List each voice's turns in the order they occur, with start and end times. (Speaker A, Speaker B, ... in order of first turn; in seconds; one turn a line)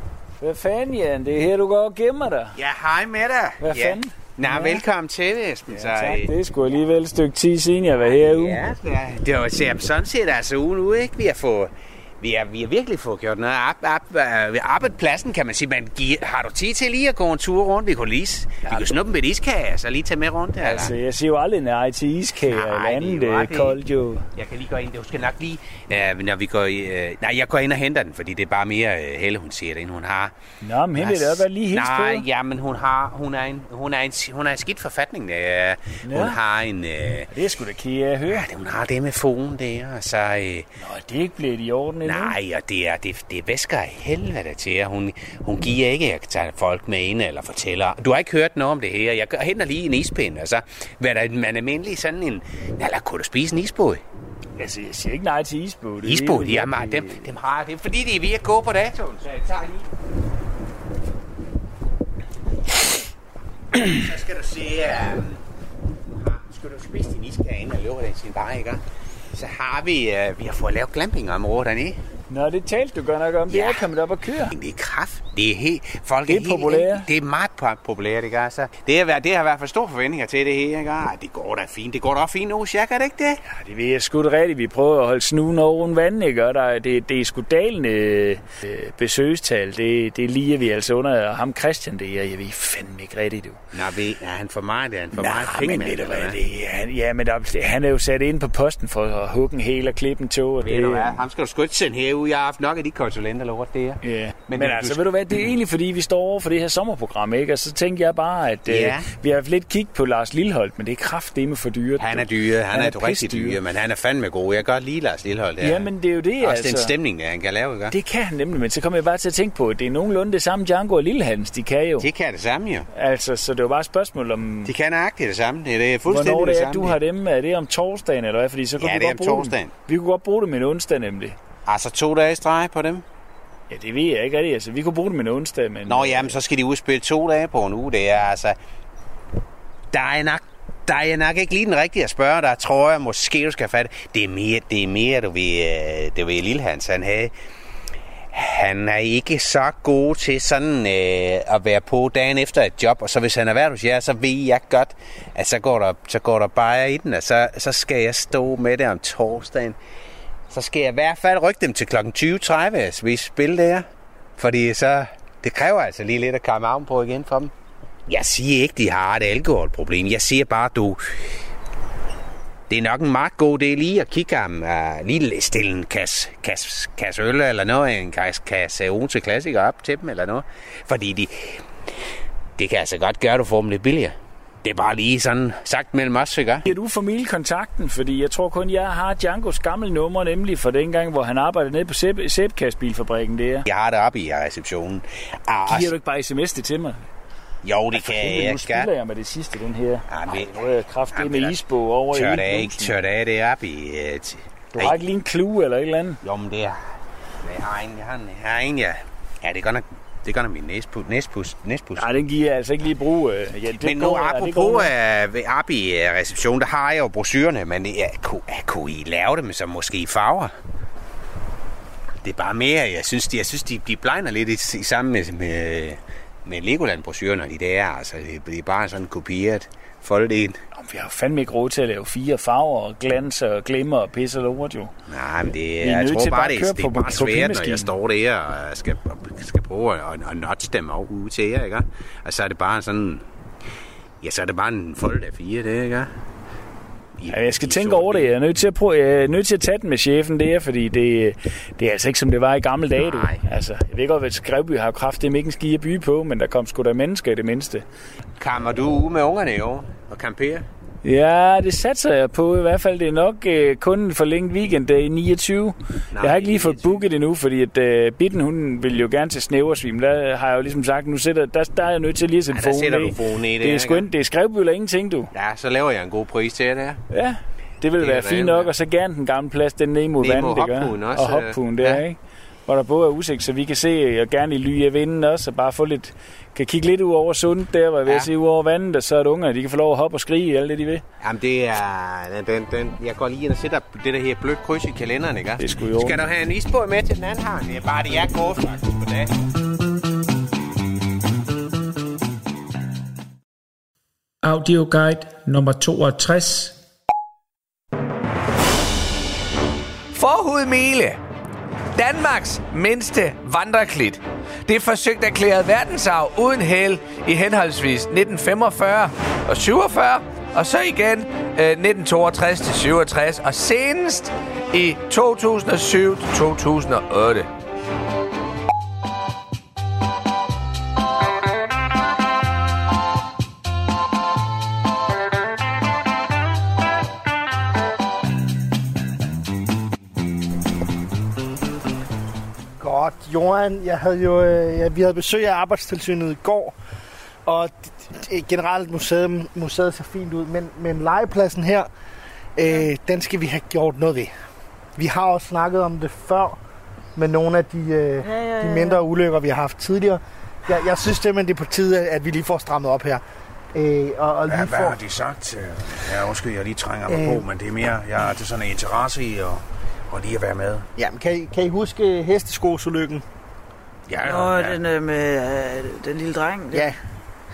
Speaker A: 0.4-2.6
Speaker B: 2.5-6.3
Speaker A: 3.6-4.8
Speaker A: 5.7-8.6
Speaker B: 8.1-20.9
Speaker A: 20.6-24.3
Speaker B: 22.4-23.8
Speaker B: 24.3-30.3
Speaker A: 30.6-32.2
Speaker B: 30.9-37.3
Speaker A: 36.0-36.4
Speaker A: 37.3-38.5
Speaker B: 38.3-40.7
Speaker A: 40.8-42.4
Speaker B: 42.0-54.0
Speaker A: 54.6-57.3
Speaker B: 56.0-59.8
Speaker B: 63.8-65.4
Speaker B: 66.2-68.8
Speaker B: 69.3-72.0
Speaker A: 72.3-74.5
Speaker B: 73.5-73.9
Speaker B: 74.5-83.4
Speaker A: 76.3-77.1
Speaker A: 83.4-93.6
Speaker B: 93.7-96.3
Speaker A: 95.1-101.2
Speaker B: 100.6-105.0
Speaker A: 104.0-113.6
Speaker B: 108.7-109.1
Speaker B: 112.0-115.9
Speaker A: 115.6-116.9
Speaker B: 116.4-117.9
Speaker A: 117.9-122.1
Speaker B: 122.0-122.9
Speaker A: 122.9-124.7
Speaker B: 124.6-127.0
Speaker A: 126.1-131.3
Speaker B: 128.8-129.7
Speaker B: 131.7-133.0
Speaker A: 133.7-136.4
Speaker B: 135.9-138.6
Speaker B: 139.9-147.3
Speaker B: 148.3-159.8
Speaker B: 160.5-163.8
Speaker B: 164.4-167.5
Speaker B: 168.1-171.0
Speaker B: 172.7-181.6
Speaker B: 182.6-186.7
Speaker A: 186.6-193.6
Speaker B: 193.6-195.9
Speaker A: 195.7-197.0
Speaker B: 197.6-198.9
Speaker A: 197.9-202.9
Speaker B: 200.1-205.0
Speaker A: 204.7-206.2
Speaker B: 206.2-206.8
Speaker B: 207.4-212.1
Speaker A: 212.0-214.9
Speaker B: 213.7-220.5
Speaker B: 222.2-230.6
Speaker A: 230.7-234.9
Speaker B: 235.1-243.2
Speaker A: 235.8-237.9
Speaker B: 244.2-246.1
Speaker B: 247.2-248.3
Speaker A: 247.3-257.8
Speaker B: 253.0-253.4
Speaker B: 258.4-260.6
Speaker A: 261.0-275.3
Speaker B: 266.1-267.0
Speaker B: 272.5-274.1
Speaker B: 275.3-277.0
Speaker A: 277.1-291.0
Speaker B: 278.0-278.7
Speaker B: 280.2-282.0
Speaker B: 291.2-299.3
Speaker A: 295.6-296.2
Speaker A: 304.4-306.8
Speaker C: 310.1-311.2
Speaker C: 311.9-327.5
Speaker D: 342.8-346.8
Speaker D: 347.4-351.9
Speaker D: 352.6-354.3
Speaker D: 355.0-356.6
Speaker D: 357.1-363.2
Speaker E: 358.2-359.0
Speaker D: 363.7-365.0
Speaker F: 364.5-370.9
Speaker D: 367.1-367.4
Speaker D: 370.9-373.2
Speaker F: 374.1-374.7
Speaker E: 374.2-376.9
Speaker D: 376.7-377.0